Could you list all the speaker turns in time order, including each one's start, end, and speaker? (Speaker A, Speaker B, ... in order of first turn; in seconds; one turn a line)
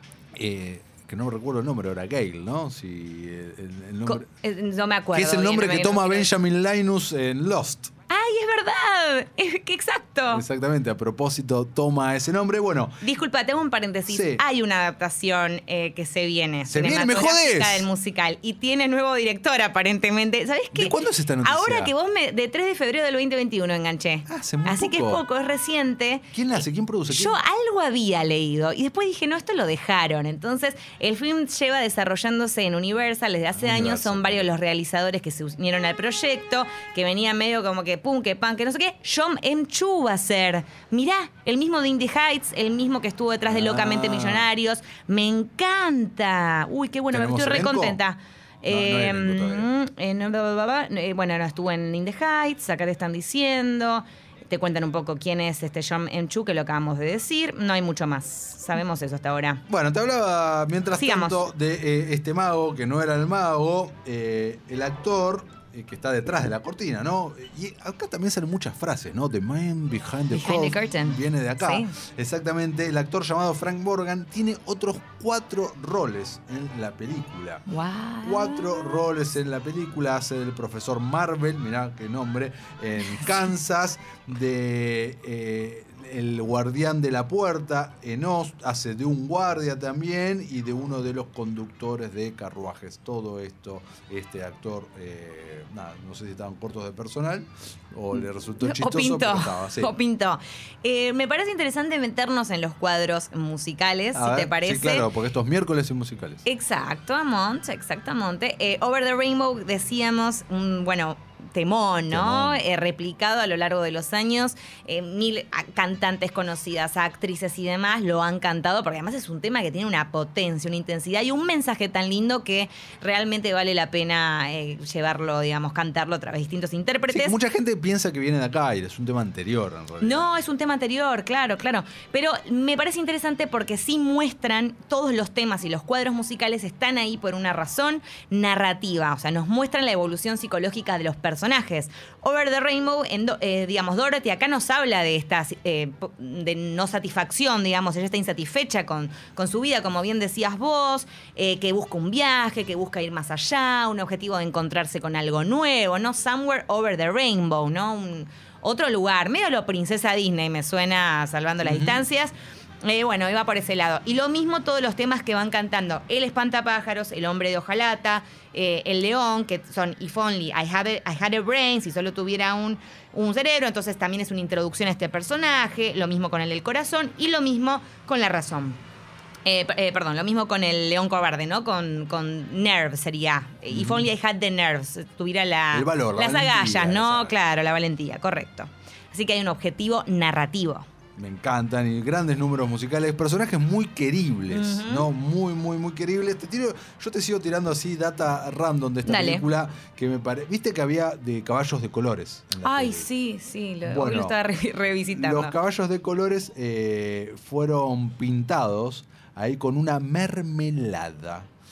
Speaker A: 0.3-4.2
Speaker B: 4.0-6.3
Speaker A: 5.1-7.9
Speaker B: 8.1-10.4
Speaker A: 10.3-13.0
Speaker B: 13.0-26.3
Speaker A: 14.1-14.4
Speaker A: 16.7-17.9
Speaker A: 20.7-21.9
Speaker A: 24.3-25.2
Speaker A: 26.3-27.4
Speaker B: 27.1-59.6
Speaker A: 33.5-34.5
Speaker A: 43.4-44.5
Speaker A: 47.1-48.0
Speaker A: 48.7-49.7
Speaker A: 59.7-77.6
Speaker B: 61.0-61.5
Speaker B: 70.3-71.9
Speaker B: 77.7-79.0
Speaker A: 78.2-99.9
Speaker B: 98.6-105.0
Speaker A: 104.1-106.4
Speaker B: 106.4-127.4
Speaker A: 112.1-112.6
Speaker A: 127.1-130.3
Speaker B: 130.0-178.8
Speaker A: 161.6-162.0
Speaker B: 179.4-190.9
Speaker A: 183.7-184.1
Speaker A: 185.7-187.3
Speaker A: 191.2-203.1
Speaker B: 194.5-195.1
Speaker B: 199.1-199.4
Speaker B: 202.6-205.6
Speaker A: 203.8-204.4
Speaker A: 205.1-211.5